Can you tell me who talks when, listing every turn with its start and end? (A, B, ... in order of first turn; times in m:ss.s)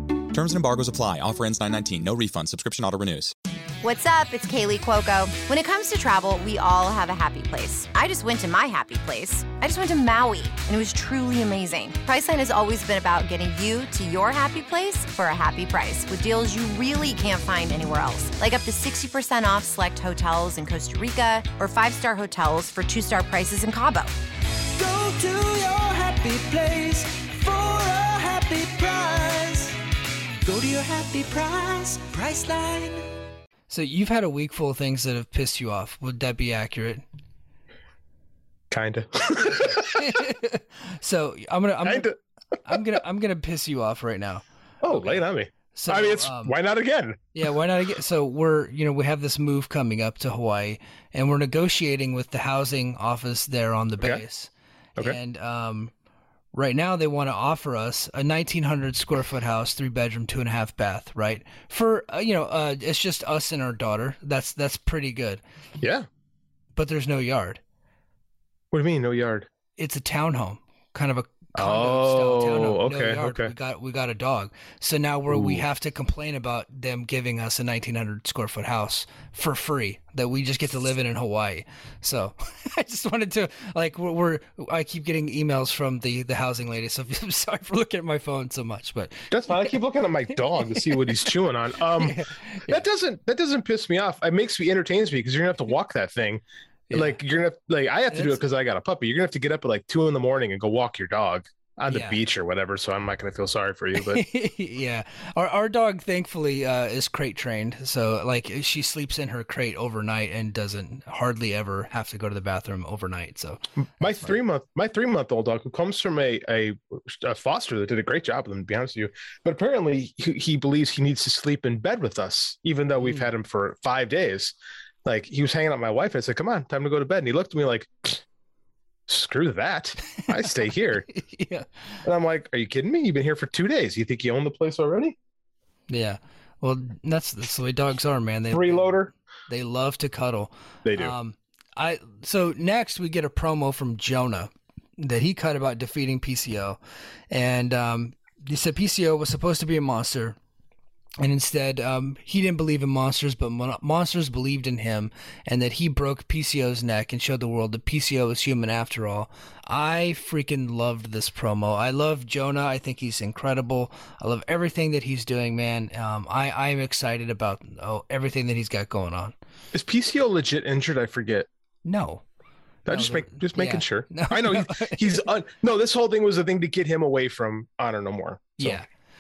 0:00.3-0:03.3 A
0:03.8-0:24.2 B
0:24.8-0:29.8 C
0:30.4-0:33.1 C
0:33.7-0:37.0 D
0:38.7-0:40.1 E
0:39.9-0:42.1 D
0:41.8-0:42.1 E
0:42.6-0:46.6 D
0:44.8-0:47.4 E
0:47.4-0:55.9 D
0:56.5-1:05.4 D
1:05.8-1:06.1 E
1:06.8-1:07.6 D
1:08.7-1:09.5 E
1:09.8-1:29.7 D
1:11.6-1:13.5 E
1:15.3-1:15.6 E
1:29.3-1:44.2 E
1:30.5-1:31.3 D
1:32.0-1:32.8 D
1:36.9-1:37.2 D
1:38.1-1:38.4 D
1:41.9-1:42.2 D
1:44.0-1:54.4 D
1:54.0-2:08.2 E
2:03.0-2:03.3 D
2:09.1-2:11.1 E
2:11.1-2:11.8 D
2:12.0-2:15.2 E
2:15.9-2:26.8 D
2:18.5-2:19.1 E
2:20.8-2:21.2 E
2:27.3-2:30.4 D
2:31.2-2:49.4 D
2:49.7-2:51.5 E
2:51.8-2:52.2 D
2:52.9-2:58.8 E
2:52.9-2:55.2 D
2:58.6-2:58.9 D